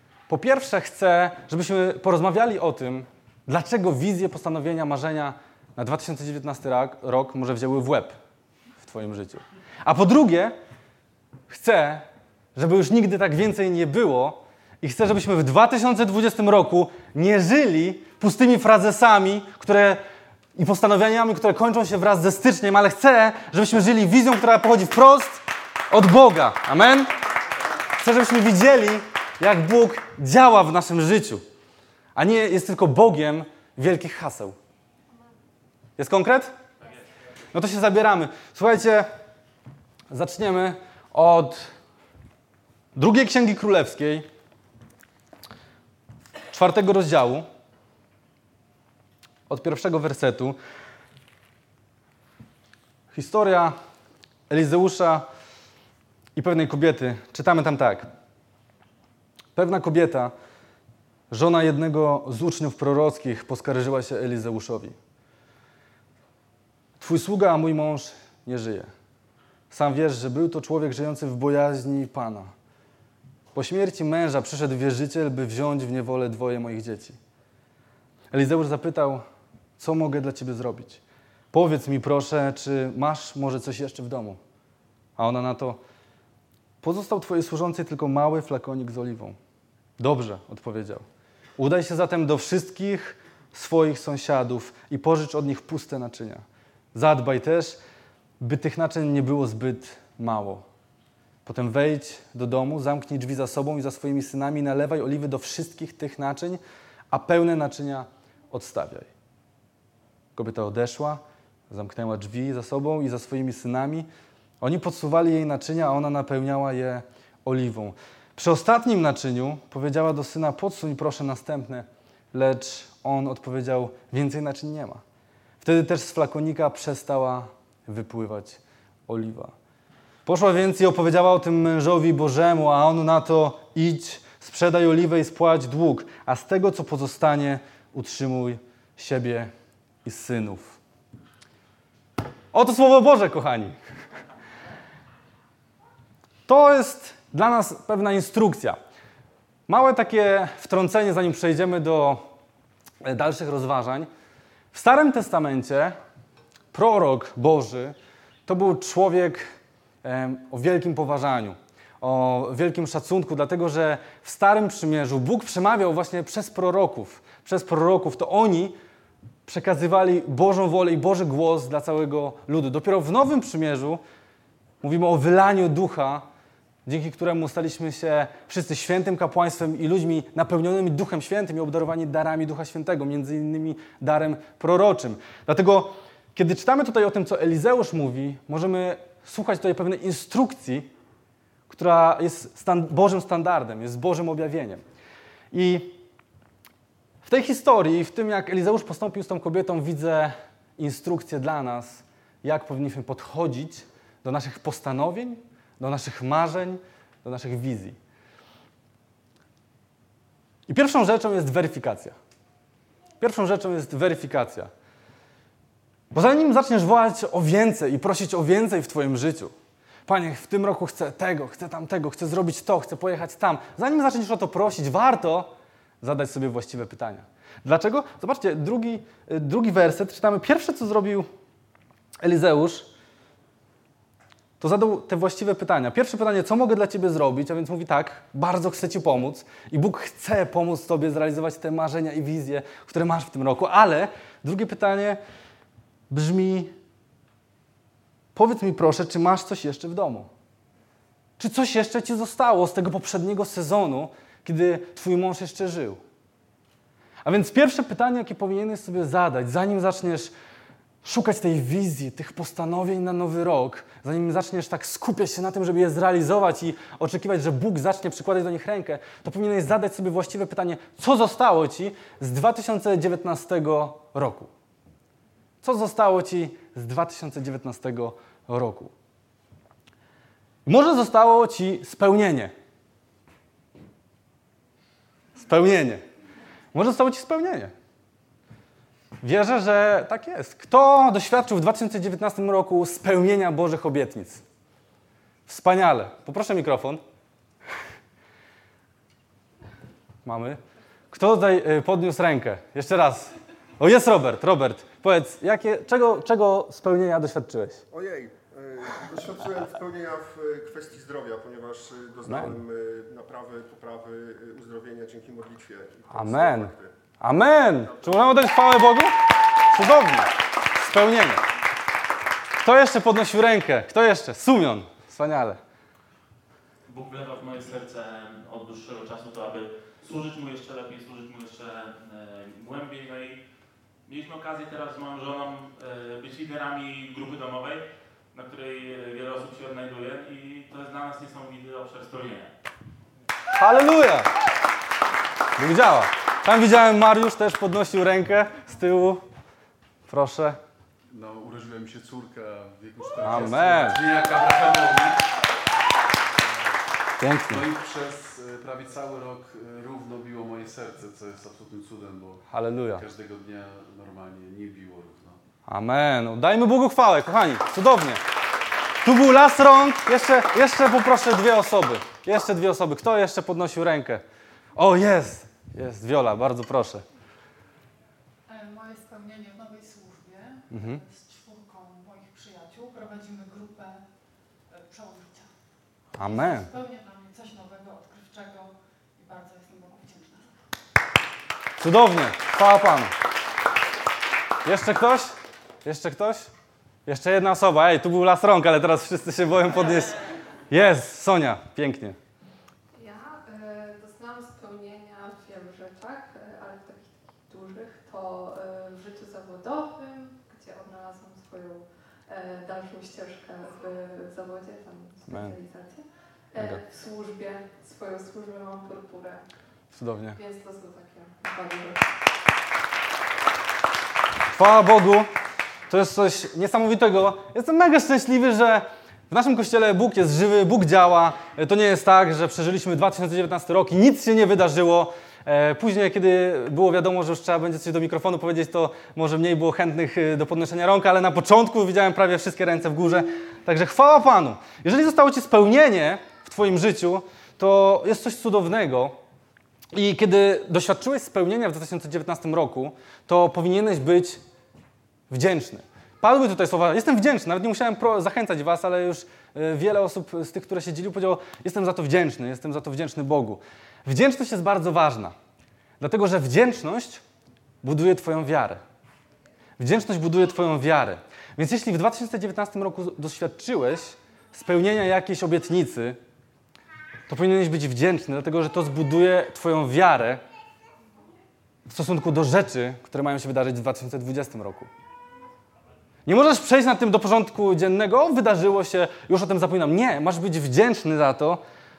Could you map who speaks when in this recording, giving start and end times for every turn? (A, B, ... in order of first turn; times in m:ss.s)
0:00.3-0:08.1 A
0:08.8-0:10.6 A
0:11.5-0:20.0 A
0:20.5-0:27.1 A
0:28.0-0:31.4 A
0:32.2-0:34.6 A
0:36.0-0:36.6 A
0:37.5-0:39.1 A
0:40.1-0:41.7 A
0:42.9-0:44.3 A
0:46.5-0:47.4 A
0:49.5-0:50.6 A
0:53.1-0:53.7 A
0:54.5-0:55.2 A
0:56.4-0:58.1 A
0:59.5-1:00.3 A
1:01.3-1:05.0 A
1:07.0-1:08.9 A
1:09.7-1:12.5 A
1:13.5-1:17.2 A
1:18.3-1:19.2 A
1:19.8-1:24.4 A
1:25.2-1:25.8 A
1:26.8-1:29.4 A
1:30.0-1:31.0 A
1:31.6-1:36.4 A
1:36.9-1:37.8 A
1:38.4-1:40.6 A
1:41.4-1:46.6 A
1:47.1-1:49.1 A
1:50.3-1:54.1 A
1:54.6-2:05.0 A
2:05.6-2:09.5 A
2:10.2-2:19.5 A
2:20.0-2:20.8 A
2:22.5-2:23.8 A
2:26.5-2:28.8 A
2:29.7-2:32.2 A
2:33.0-2:34.1 A
2:34.7-2:36.0 A
2:36.7-2:37.9 A
2:38.5-2:39.4 A
2:40.0-2:48.8 A
2:49.4-2:54.0 A
2:54.8-2:56.2 A
2:56.8-3:10.9 A
3:11.7-3:14.8 A
3:15.5-3:16.0 A
3:17.2-3:28.0 A
3:30.7-3:32.2 A
3:33.2-3:34.7 A
3:36.1-3:39.5 A
3:40.0-3:51.3 A
3:52.2-3:52.9 A
3:54.6-4:05.2 A
4:06.1-4:06.7 A
4:08.3-4:10.3 A
4:11.4-4:16.0 A
4:17.2-4:20.3 A
4:21.0-4:34.5 A
4:35.6-4:38.9 A
4:40.6-4:42.5 A
4:45.4-4:46.0 A
4:46.7-4:47.7 A
4:49.2-4:54.4 A
4:55.5-4:57.0 A
5:00.2-5:00.6 A
5:01.1-5:07.8 A
5:07.9-5:16.9 B
5:12.3-5:12.6 A
5:16.1-5:19.1 A
5:19.7-5:21.4 A
5:22.6-5:25.6 A
5:26.9-5:33.4 C
5:34.0-5:42.5 C
5:43.5-5:44.3 A
5:45.6-5:49.2 A
5:50.1-5:50.6 A
5:51.1-5:55.2 D
5:53.2-5:54.0 A
5:57.2-5:57.7 A
5:57.5-6:02.4 D
6:02.5-6:03.0 A
6:02.9-6:05.4 D
6:05.7-6:08.2 A
6:09.0-6:14.2 A
6:14.8-6:17.0 A
6:18.5-6:24.0 E
6:20.7-6:21.0 A
6:24.7-6:25.5 E
6:26.2-6:26.7 A
6:26.2-6:30.5 E
6:31.8-6:33.1 A
6:34.6-6:35.3 A
6:35.8-6:36.5 A
6:37.0-6:42.2 A
6:42.9-6:59.4 F
6:55.3-6:55.6 A
6:59.9-7:00.4 A
7:00.3-7:02.1 F
7:04.5-7:05.3 A
7:05.9-7:29.2 A
7:29.9-7:34.4 A
7:35.3-7:45.3 A
7:46.0-7:47.2 A
7:47.8-7:48.8 A
7:49.8-7:56.2 A
7:57.3-8:00.4 A
8:01.9-8:04.9 A
8:06.2-8:11.6 A